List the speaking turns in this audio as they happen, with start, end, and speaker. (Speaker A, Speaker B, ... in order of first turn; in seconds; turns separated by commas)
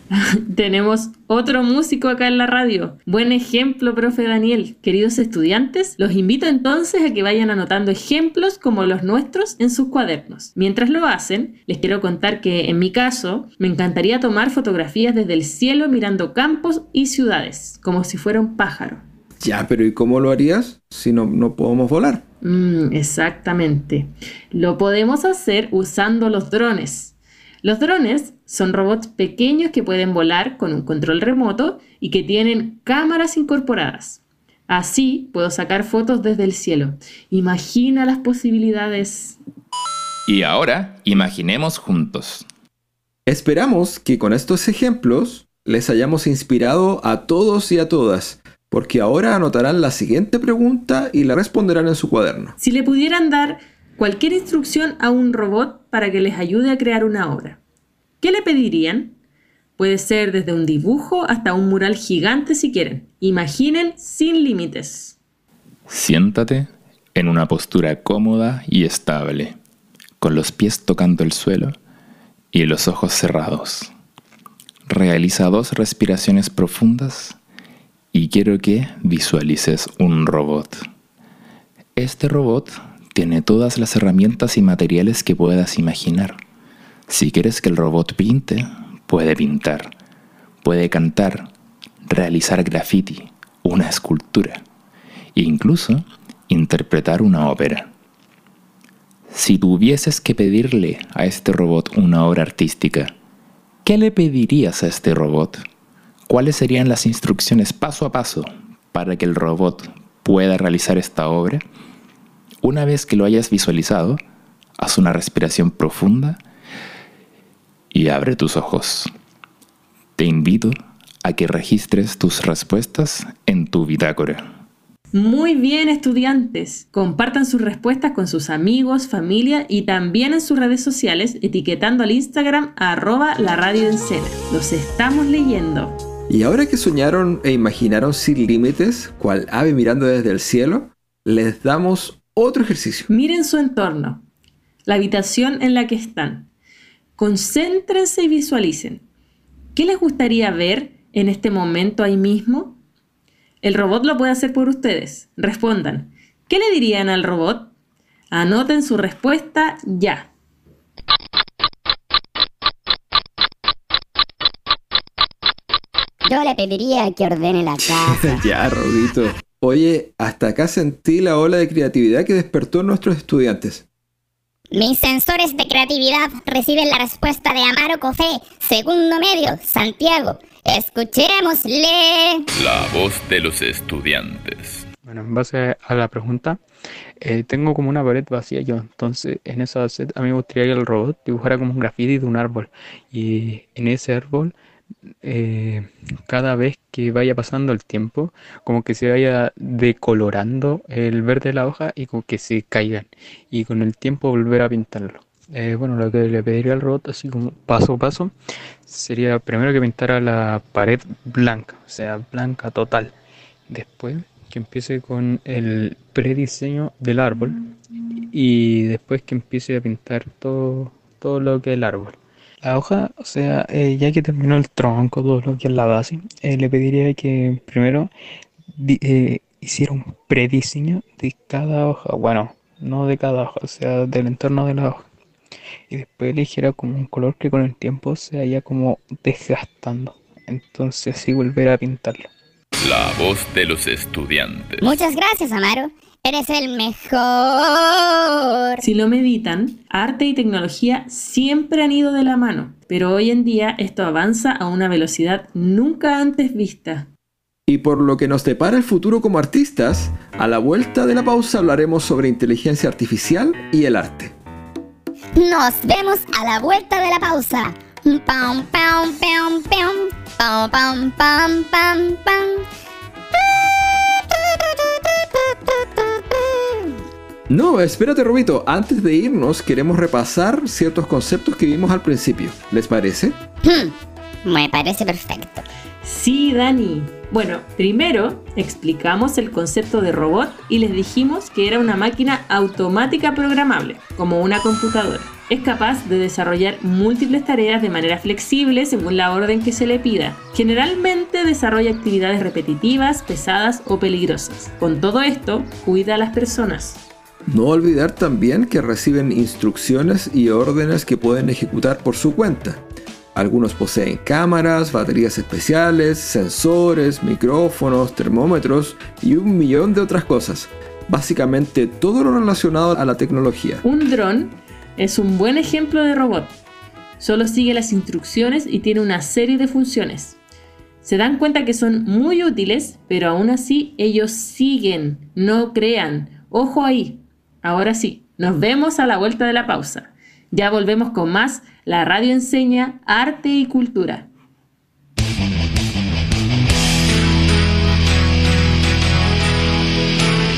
Speaker A: 0.1-19.0, Speaker B: 19.4-22.2, Speaker A: 22.4-39.4, Speaker C: 40.3-42.5, Speaker B: 43.3-52.5, Speaker A: 52.6-57.6, Speaker A: 58.2-59.1, Speaker A: 59.8-65.2, Speaker C: 65.9-69.6, Speaker C: 70.2-71.8, Speaker C: 72.5-73.9, Speaker C: 74.9-77.4, Speaker C: 78.1-80.8, Speaker C: 82.0-86.4, Speaker C: 87.1-89.9, Speaker C: 90.6-91.5, Speaker C: 92.0-94.6, Speaker C: 95.3-97.9, Speaker C: 99.3-103.1, Speaker C: 103.8-105.6, Speaker C: 106.3-111.6, Speaker C: 112.6-114.2, Speaker C: 114.8-116.4, Speaker C: 117.9-119.1, Speaker C: 120.2-124.4, Speaker A: 125.1-136.0, Speaker B: 136.3-143.1, Speaker A: 143.1-144.2, Speaker A: 144.9-146.5, Speaker A: 147.2-149.0, Speaker A: 149.8-152.8, Speaker A: 153.6-157.7, Speaker A: 158.3-160.3, Speaker D: 166.2-168.4, Speaker B: 167.9-173.8, Speaker D: 174.7-182.5, Speaker C: 182.6-184.8, Speaker E: 185.0-186.6, Speaker E: 187.2-194.6, Speaker E: 195.2-208.3, Speaker E: 208.9-213.1, Speaker E: 213.7-217.6, Speaker E: 218.3-228.1, Speaker E: 228.8-235.1, Speaker E: 235.9-242.3, Speaker C: 242.9-244.8, Speaker D: 244.8-248.8, Speaker A: 248.8-257.1, Speaker B: 257.7-264.4, Speaker D: 265.4-272.7, Speaker D: 275.0-276.9, Speaker B: 277.5-283.4, Speaker D: 283.6-285.6, Speaker A: 286.0-307.0, Speaker B: 307.5-312.8, Speaker B: 313.4-323.8, Speaker A: 323.8-326.6, Speaker A: 327.2-330.4, Speaker A: 331.0-344.3